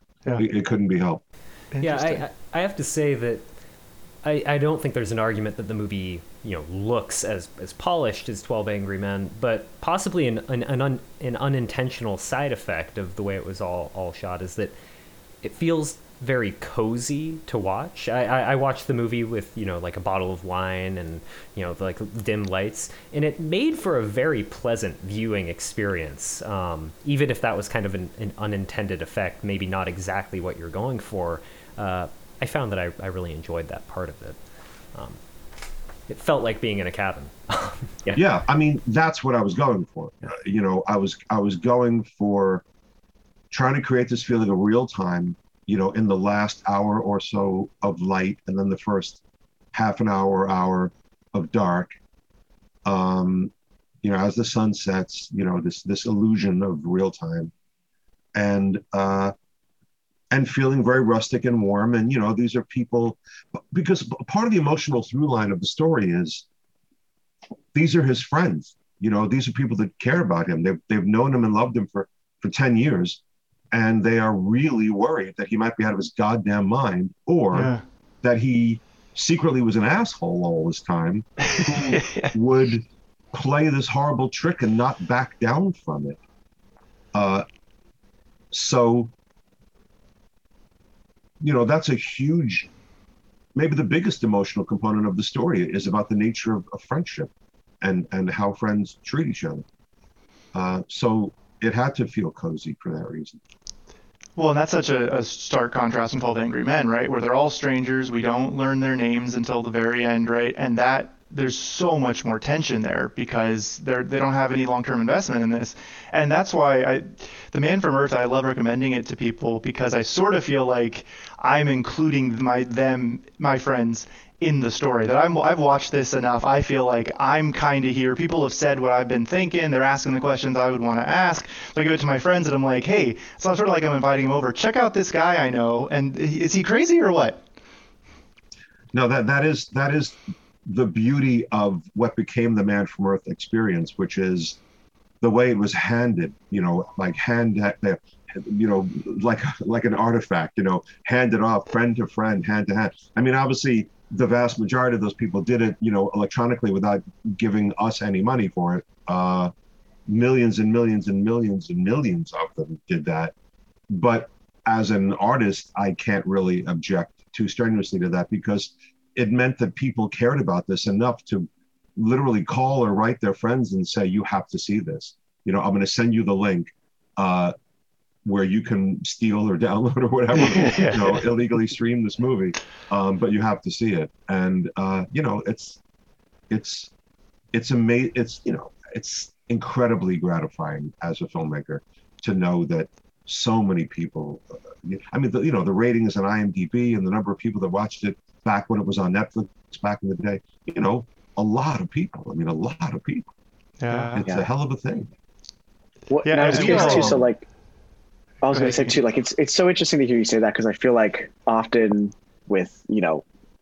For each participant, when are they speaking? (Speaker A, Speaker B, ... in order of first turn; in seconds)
Speaker A: 0.4-1.2, 38.1-42.6, 43.5-49.2, 49.7-52.0, 52.9-53.5, 54.0-57.5, 58.4-59.3, 60.3-63.2, 63.7-66.5, 67.7-73.2, 73.7-86.2, 87.1-87.5, 88.5-89.1, 91.4-92.7, 93.5-97.3, 97.8-99.7, 100.5-103.4, 138.9-144.6, 145.2-159.5, 160.1-163.3, 163.9-177.5, 178.2-185.8, 186.5-186.9, 187.5-203.3, 204.1-205.1, 206.6-207.2
Speaker B: 1.7-2.2, 77.5-77.8, 81.6-82.3, 104.4-137.4, 180.6-181.0, 203.8-204.3, 206.2-207.3, 208.5-208.9
Speaker C: 1.8-3.4, 4.2-14.7, 15.4-34.4, 34.9-35.2, 36.1-38.2
Speaker D: 206.1-207.4, 208.4-213.2